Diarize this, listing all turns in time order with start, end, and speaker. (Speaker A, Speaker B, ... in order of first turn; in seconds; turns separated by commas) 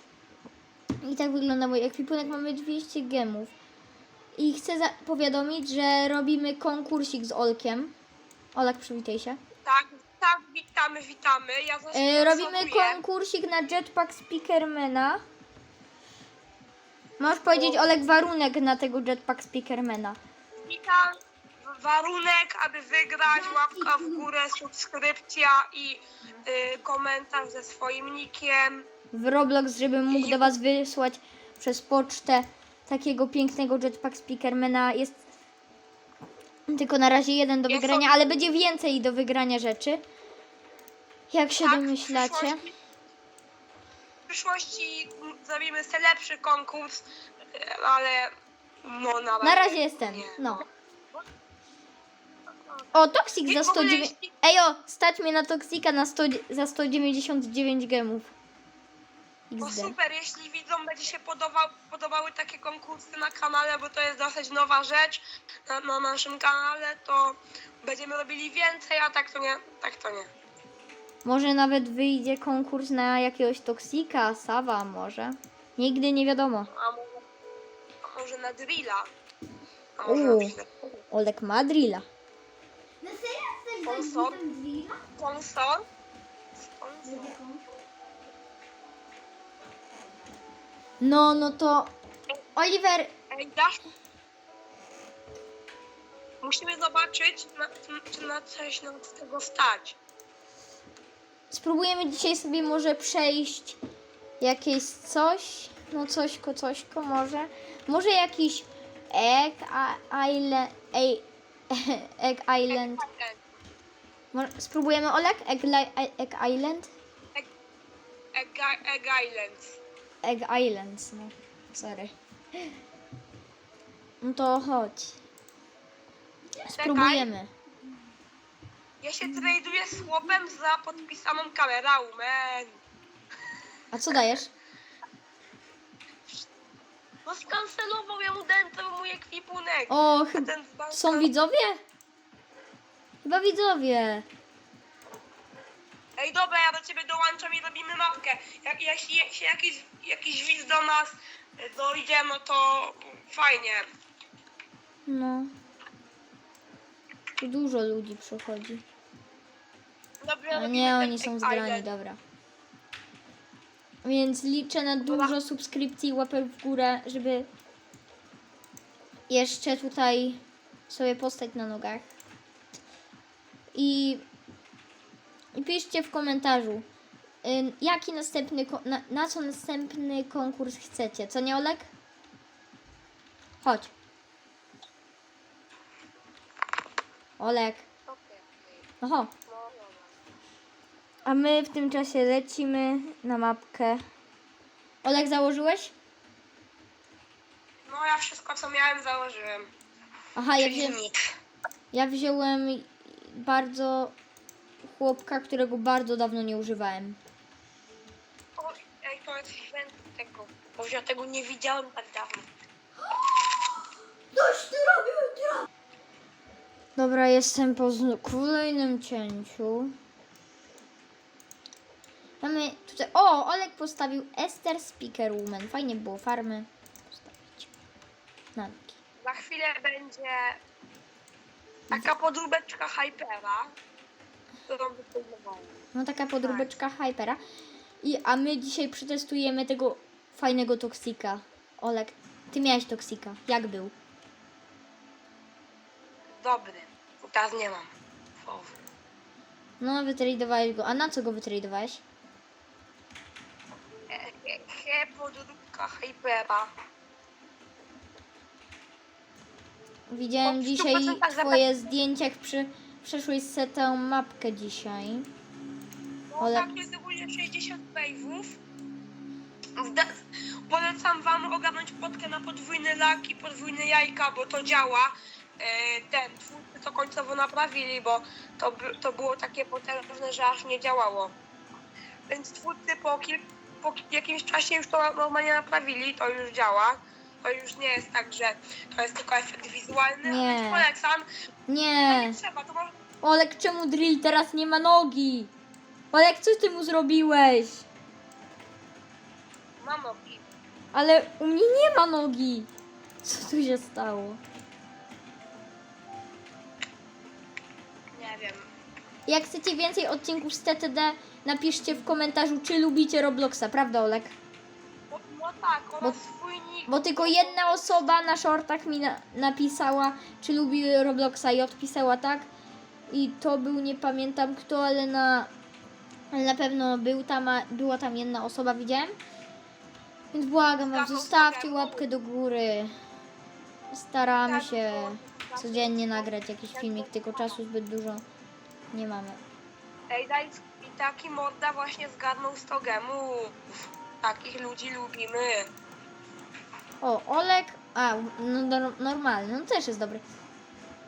Speaker A: 1.0-3.5, Speaker A: 4.3-7.9, Speaker A: 8.5-9.4, Speaker B: 9.7-13.0, Speaker A: 11.9-15.2, Speaker A: 17.2-20.2, Speaker B: 17.4-18.0, Speaker B: 20.7-28.9, Speaker C: 23.3-24.3, Speaker A: 29.1-35.2, Speaker B: 30.1-30.6, Speaker A: 36.7-40.0, Speaker B: 37.7-38.4, Speaker A: 41.3-42.6, Speaker B: 41.6-42.8, Speaker B: 44.3-48.3, Speaker B: 48.8-51.3, Speaker A: 49.4-50.6, Speaker A: 52.9-58.3, Speaker B: 53.5-54.4, Speaker A: 59.5-60.0, Speaker B: 59.6-70.3, Speaker A: 71.2-76.7, Speaker B: 76.7-77.2, Speaker B: 78.0-79.1, Speaker B: 80.0-80.9, Speaker A: 80.0-80.6, Speaker A: 81.1-82.0, Speaker C: 83.0-85.0, Speaker B: 83.8-84.4, Speaker B: 85.2-85.8, Speaker B: 86.6-87.4, Speaker C: 87.0-87.6, Speaker A: 91.0-91.9, Speaker A: 92.6-93.1, Speaker B: 93.3-93.8, Speaker B: 96.4-100.0, Speaker A: 101.5-103.8, Speaker A: 104.4-113.0, Speaker B: 112.7-113.4, Speaker A: 114.3-116.9, Speaker B: 118.3-119.8, Speaker A: 120.2-122.1, Speaker A: 124.2-125.2, Speaker A: 126.6-127.5, Speaker B: 126.8-127.3, Speaker B: 129.0-132.8, Speaker A: 133.9-134.5, Speaker B: 137.2-141.3, Speaker A: 139.9-141.8, Speaker A: 143.2-144.3, Speaker B: 146.2-153.9, Speaker A: 155.1-155.5, Speaker A: 157.4-158.8, Speaker B: 160.2-161.8, Speaker A: 160.5-162.2, Speaker A: 164.0-167.5, Speaker B: 165.1-165.3, Speaker A: 169.3-172.1, Speaker A: 173.7-174.2, Speaker A: 175.6-176.9, Speaker A: 177.4-181.9, Speaker A: 183.6-183.9, Speaker A: 187.4-187.8, Speaker B: 188.1-188.8, Speaker A: 189.0-189.3, Speaker B: 189.5-190.1, Speaker A: 191.3-194.0, Speaker A: 195.0-195.9, Speaker B: 197.9-199.7, Speaker A: 200.3-201.0, Speaker B: 200.6-201.2, Speaker A: 201.9-204.2, Speaker A: 204.8-207.2, Speaker B: 208.6-212.5, Speaker C: 213.0-213.7, Speaker C: 214.3-215.7, Speaker A: 217.0-219.9, Speaker A: 222.4-227.7, Speaker A: 228.6-229.0, Speaker B: 229.2-230.6, Speaker B: 231.9-233.7, Speaker B: 234.7-235.7, Speaker A: 235.9-237.4, Speaker B: 236.4-236.8, Speaker A: 238.0-243.9, Speaker B: 246.3-247.9, Speaker B: 248.4-248.8, Speaker A: 249.8-252.0, Speaker B: 254.1-256.7, Speaker A: 260.1-265.3, Speaker B: 260.4-261.7, Speaker B: 266.3-268.6, Speaker A: 266.4-266.7, Speaker B: 269.8-270.1, Speaker B: 270.7-281.3, Speaker B: 282.3-291.3, Speaker A: 290.2-290.9, Speaker A: 291.7-292.4, Speaker B: 292.1-292.9, Speaker A: 293.2-295.5, Speaker A: 296.1-297.9, Speaker B: 299.8-300.5, Speaker A: 300.9-302.7, Speaker A: 303.2-304.4, Speaker B: 308.1-308.7, Speaker A: 309.3-314.3, Speaker B: 315.1-318.3, Speaker A: 316.9-322.5, Speaker A: 323.1-325.5, Speaker A: 326.3-329.2, Speaker A: 330.3-332.9, Speaker B: 330.9-332.1, Speaker A: 333.9-338.2, Speaker B: 334.4-337.6, Speaker A: 338.9-339.4, Speaker B: 340.1-345.7, Speaker A: 347.0-350.2